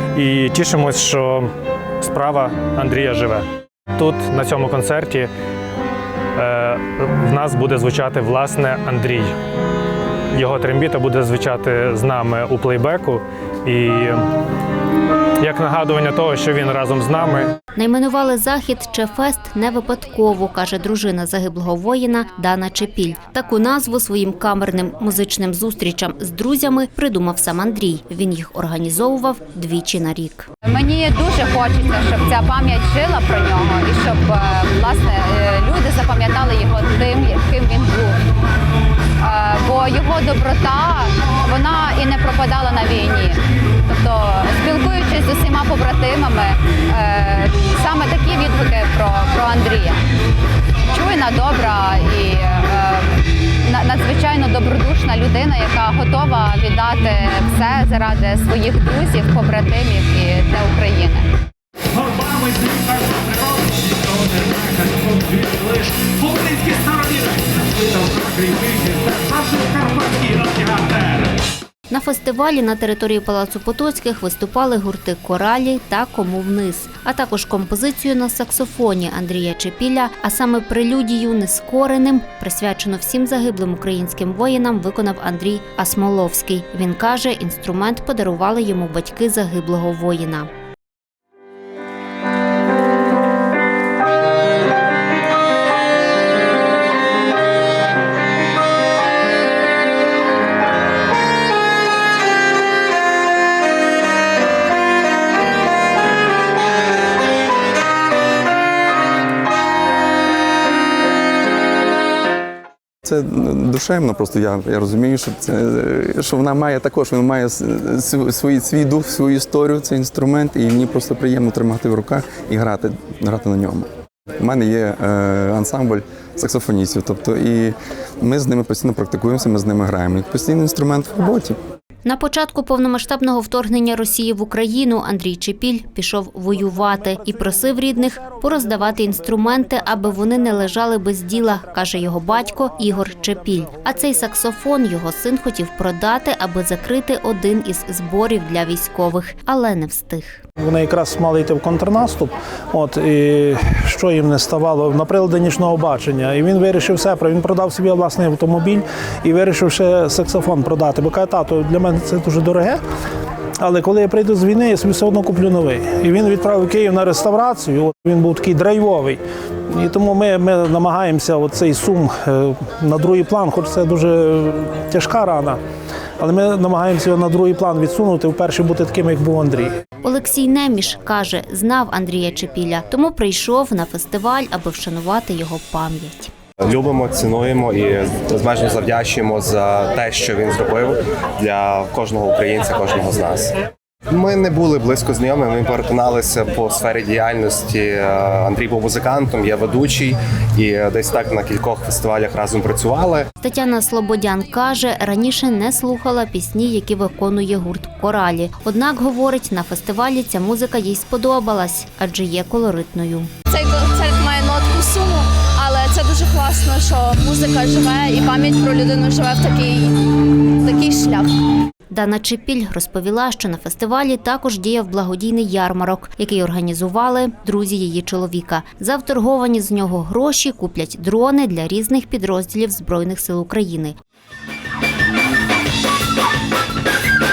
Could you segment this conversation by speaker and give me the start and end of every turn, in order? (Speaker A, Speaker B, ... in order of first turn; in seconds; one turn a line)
Speaker A: 0.1-1.5
Speaker A: 2.0-5.3
Speaker A: 6.3-9.3
Speaker A: 10.3-14.2
Speaker A: 15.4-17.5
Speaker B: 17.8-30.5
Speaker C: 30.6-38.2
Speaker C: 39.2-50.0
Speaker C: 50.9-61.3
Speaker A: 62.0-71.2
Speaker B: 71.9-90.5
Speaker D: 113.0-123.9
Speaker D: 124.4-131.6
Speaker B: 132.0-150.4
Speaker E: 150.6-162.8
Speaker E: 163.6-175.6
Speaker E: 176.2-179.7
Speaker B: 180.0-186.3
Speaker F: 186.7-193.6
Speaker F: 194.1-203.3
Speaker B: 203.4-213.3
Speaker G: 213.5-221.3
Speaker B: 221.9-233.9